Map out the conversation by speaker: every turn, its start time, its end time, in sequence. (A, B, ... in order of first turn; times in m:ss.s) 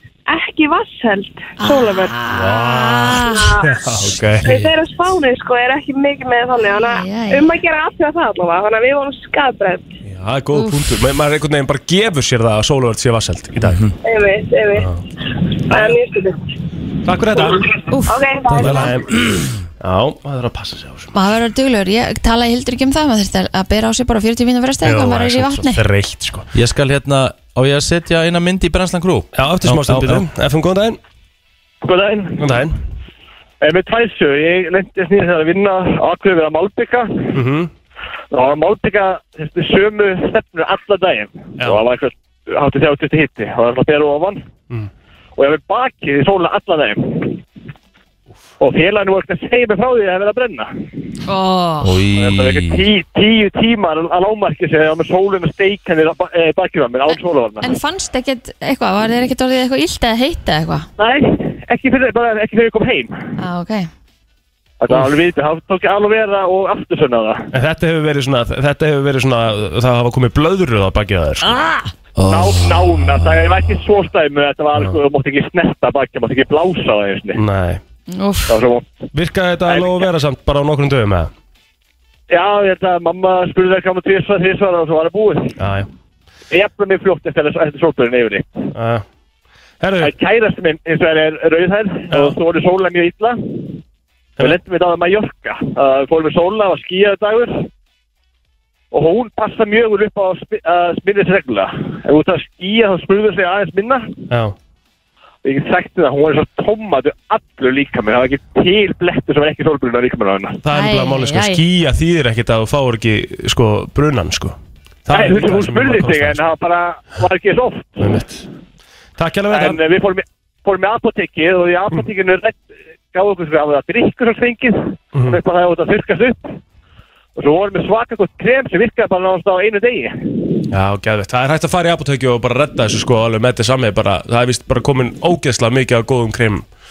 0:00.3-0:02.1 A
0:01.6-0:03.6 B
0:02.3-0:04.5 C
0:03.3-0:03.8 A
0:04.4-0:04.7 D
0:04.4-0:09.9 A
0:06.8-0:07.5 B
0:10.0-0:13.8 C
0:13.6-0:13.9 D
0:14.0-0:14.9 A
0:14.8-0:15.0 C
0:15.7-0:16.4 A
0:17.0-0:17.7 C
0:17.5-0:18.9 A
0:17.9-0:18.2 B
0:18.5-0:21.1 C
0:21.1-0:25.8 B
0:24.8-0:26.5 C
0:26.5-0:30.2 D
0:29.3-0:31.0 C
0:31.8-0:32.6 E
0:32.4-0:32.8 C
0:33.6-0:37.3 E
0:37.3-0:37.7 C
0:38.3-0:44.4 E
0:45.4-0:47.4 E
0:48.6-0:50.7 E
0:51.3-0:51.9 B
0:51.8-0:52.8 D
0:52.1-0:57.7 E
0:57.1-1:00.8 B
1:01.0-1:03.2 E
1:03.4-1:03.9 B
1:04.8-1:07.5 E
1:07.5-1:11.5 C
1:12.2-1:13.4 D
1:12.3-1:17.4 E
1:17.4-1:17.8 C
1:18.1-1:18.6 B
1:18.5-1:18.9 E
1:19.1-1:21.3 C
1:19.7-1:20.0 E
1:22.3-1:25.5 E
1:25.6-1:25.9 C
1:26.5-1:28.5 E
1:28.7-1:29.0 C
1:29.8-1:30.1 C
1:30.0-1:33.6 E
1:32.1-1:32.4 C
1:34.4-1:37.7 E
1:38.9-1:44.1 E
1:44.3-1:44.5 C
1:45.4-1:50.6 E
1:50.6-1:54.6 C
1:50.7-1:51.6 B
1:55.1-1:56.4 C
1:55.1-1:58.1 E
1:58.0-1:58.4 C
1:59.2-1:59.8 C
1:59.5-2:06.4 E
2:07.4-2:10.1 E
2:10.7-2:16.6 C